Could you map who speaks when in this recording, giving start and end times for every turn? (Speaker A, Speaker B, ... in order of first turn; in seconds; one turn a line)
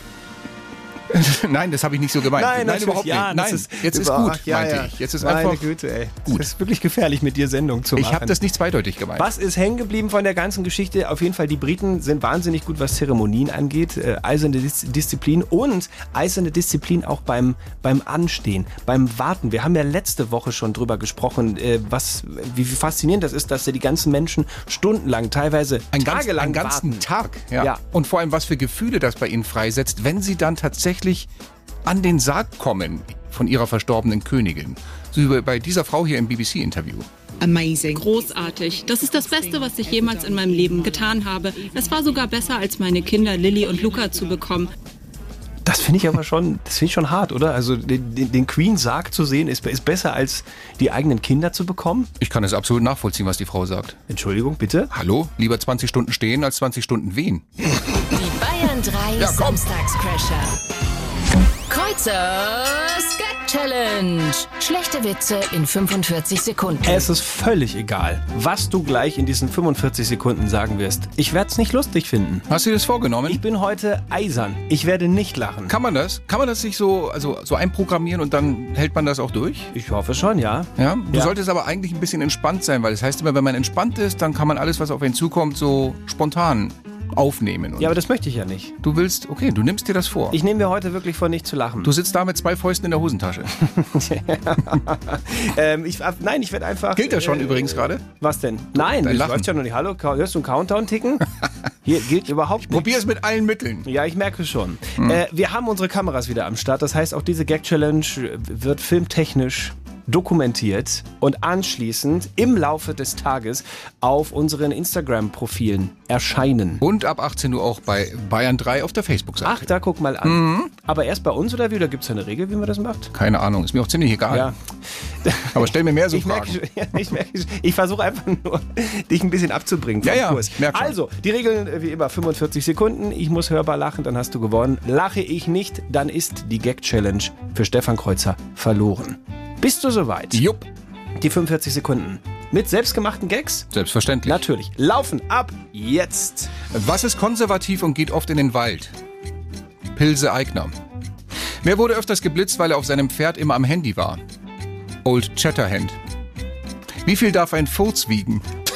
Speaker A: 1.1-5.7
Speaker B: 2.4-8.4
Speaker A: 8.0-9.3
Speaker B: 9.2-27.8
Speaker A: 25.9-31.3
Speaker A: 31.9-37.1
Speaker C: 37.4-38.3
Speaker D: 37.9-44.7
Speaker C: 39.0-40.7
Speaker B: 45.6-52.1
Speaker A: 52.2-54.0
Speaker B: 54.1-54.9
Speaker A: 54.9-57.5
Speaker E: 58.1-60.5
Speaker A: 59.2-59.6
Speaker E: 61.7-67.1
Speaker B: 66.8-72.5
Speaker A: 72.5-73.4
Speaker B: 73.3-75.8
Speaker A: 75.7-79.7
Speaker B: 79.7-81.3
Speaker A: 80.8-88.0
Speaker B: 87.8-88.7
Speaker A: 88.8-90.4
Speaker B: 90.3-91.9
Speaker A: 91.8-93.6
Speaker B: 93.7-101.3
Speaker A: 97.0-98.0
Speaker A: 98.7-99.5
Speaker B: 101.8-102.9
Speaker A: 102.7-103.9
Speaker B: 103.9-116.8
Speaker A: 116.8-119.7
Speaker B: 119.4-123.1
Speaker A: 120.2-120.7
Speaker A: 123.1-124.5
Speaker B: 124.3-124.6
Speaker B: 125.2-140.4
Speaker A: 125.5-126.6
Speaker A: 130.0-130.9
Speaker A: 140.3-140.7
Speaker B: 141.2-143.7
Speaker A: 143.7-144.4
Speaker B: 144.2-146.5
Speaker A: 146.7-148.9
Speaker A: 149.9-150.7
Speaker A: 151.6-154.2
Speaker A: 155.0-156.0
Speaker A: 157.0-158.5